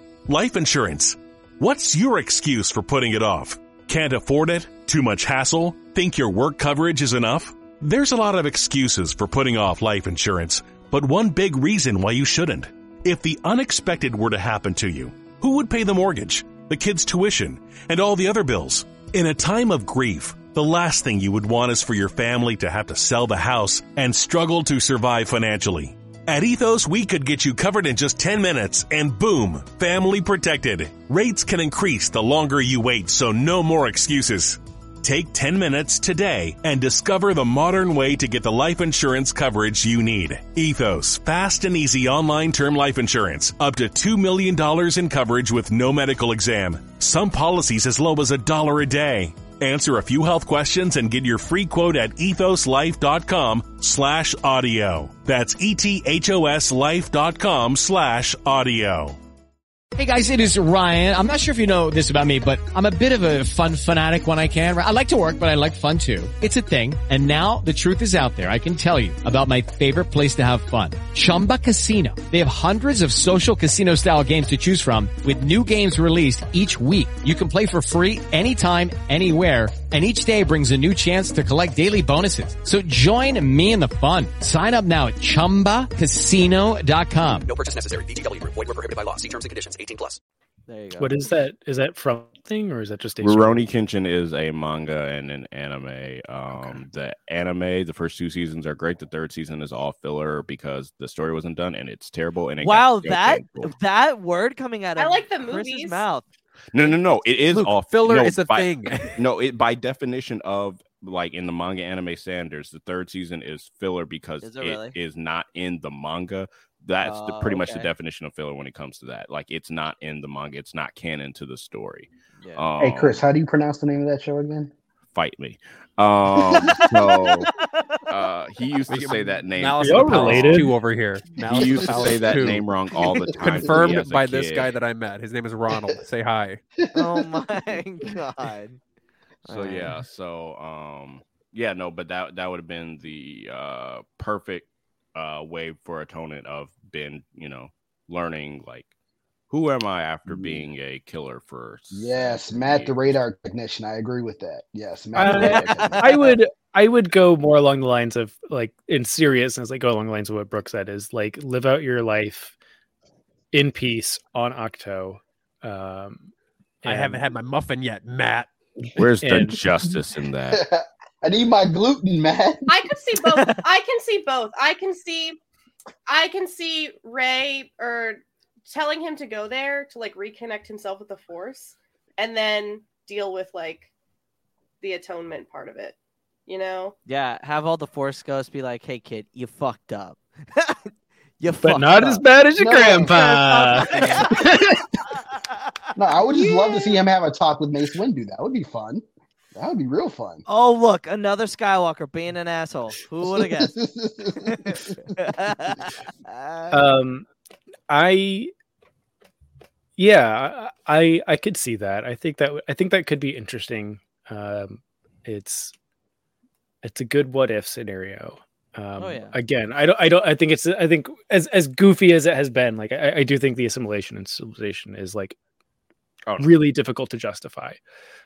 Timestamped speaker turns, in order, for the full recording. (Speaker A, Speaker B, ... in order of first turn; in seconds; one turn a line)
Speaker A: 0.3-59.2
Speaker B: 60.0-87.5
Speaker C: 87.5-90.2
Speaker D: 90.7-91.3
Speaker E: 91.0-93.6
Speaker F: 93.2-103.7
Speaker D: 102.6-106.2
Speaker G: 105.0-106.0
Speaker F: 106.7-123.2
Speaker H: 107.5-109.2
Speaker D: 114.4-115.0
Speaker D: 117.0-117.9
Speaker D: 122.4-122.7
Speaker I: 122.8-124.7
Speaker F: 125.1-127.5
Speaker D: 127.3-128.0
Speaker F: 128.1-130.7
Speaker H: 128.9-132.7
Speaker E: 129.8-130.7
Speaker F: 131.3-134.7
Speaker E: 131.8-132.1
Speaker H: 133.4-136.6
Speaker I: 136.8-137.3
Speaker D: 136.9-138.8
Speaker D: 139.4-139.9
Speaker F: 139.5-148.9
Speaker F: 149.5-153.2
Speaker I: 150.3-150.6
Speaker I: 151.9-156.1
Speaker E: 155.2-162.6
Speaker D: 155.2-156.3
Speaker E: 163.5-166.3
Speaker H: 166.8-168.5
Speaker E: 166.8-167.2
Speaker F: 168.9-170.6
Speaker E: 169.2-169.6
Speaker I: 170.5-172.7
Speaker G: 172.7-175.4
Speaker G: 176.1-183.9
Speaker G: 184.8-185.9
Speaker G: 186.5-186.9
Speaker D: 187.1-192.2
Speaker E: 191.6-194.8
Speaker I: 192.6-194.3
Speaker D: 193.8-194.4
Speaker I: 195.9-199.0
Speaker G: 196.3-196.9
Speaker I: 199.5-200.4
Speaker D: 200.5-203.8
Speaker I: 203.2-205.3
Speaker D: 204.4-206.8
Speaker E: 206.7-207.2
Speaker E: 207.9-208.5
Speaker E: 210.0-215.7
Speaker E: 216.8-225.4
Speaker D: 219.0-219.4
Speaker E: 226.4-227.8